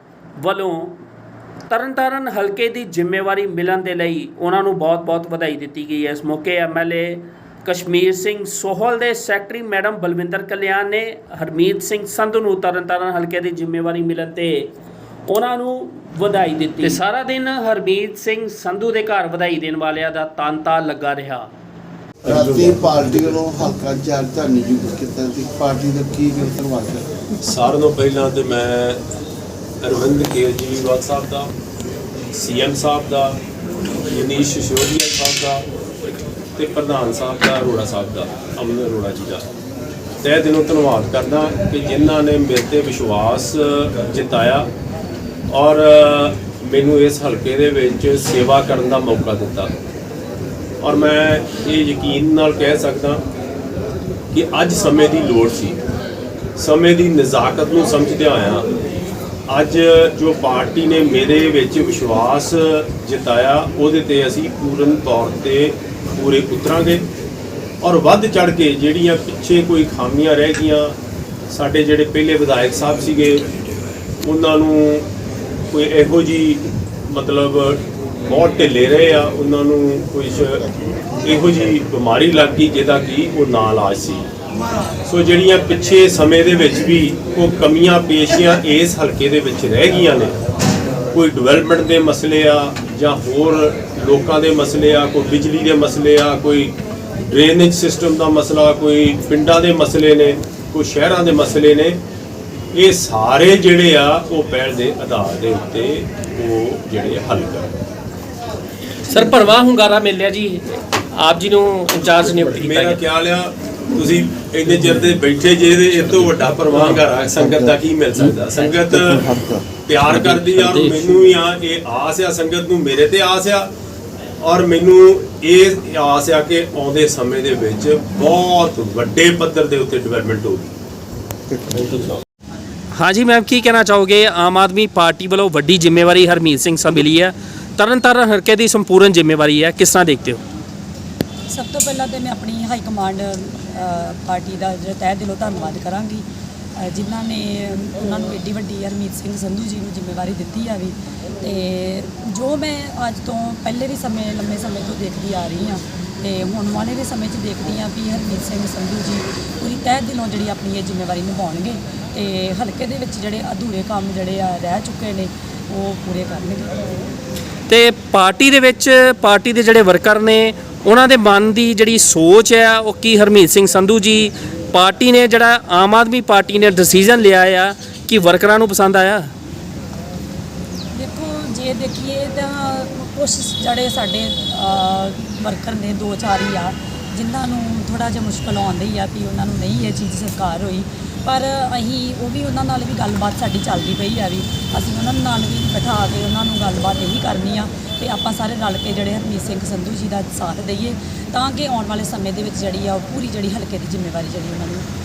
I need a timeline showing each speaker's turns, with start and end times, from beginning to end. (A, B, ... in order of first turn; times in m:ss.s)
0:00.4-0:01.0 A
0:01.7-0:14.7 A
0:15.3-0:21.5 A
0:22.2-0:27.1 B
0:22.2-0:23.3 C
0:27.4-0:29.0 C
0:29.8-0:31.5 C
0:32.3-0:33.4 C
0:34.0-0:35.6 C
0:36.6-0:39.5 C
0:40.2-0:44.7 C
0:45.5-0:49.7 C
0:50.8-0:53.2 C
0:54.3-0:55.8 C
0:56.6-0:58.7 C
0:59.5-1:07.1 C
1:07.8-1:11.0 C
1:11.5-1:13.5 C
1:14.2-1:15.1 C
1:15.7-1:24.3 C
1:25.0-1:30.4 C
1:31.1-1:42.0 C
1:42.7-1:47.8 C
1:49.1-1:50.8 A
1:51.5-1:53.0 A
1:52.4-1:59.3 C
1:57.4-1:57.8 B
1:58.8-1:59.7 B
1:59.8-2:03.7 C
2:04.4-2:10.7 C
2:11.5-2:12.0 B
2:13.0-2:20.4 A
2:21.5-2:26.2 D
2:26.8-2:46.8 D
2:47.7-2:59.3 A
3:00.9-3:24.9 D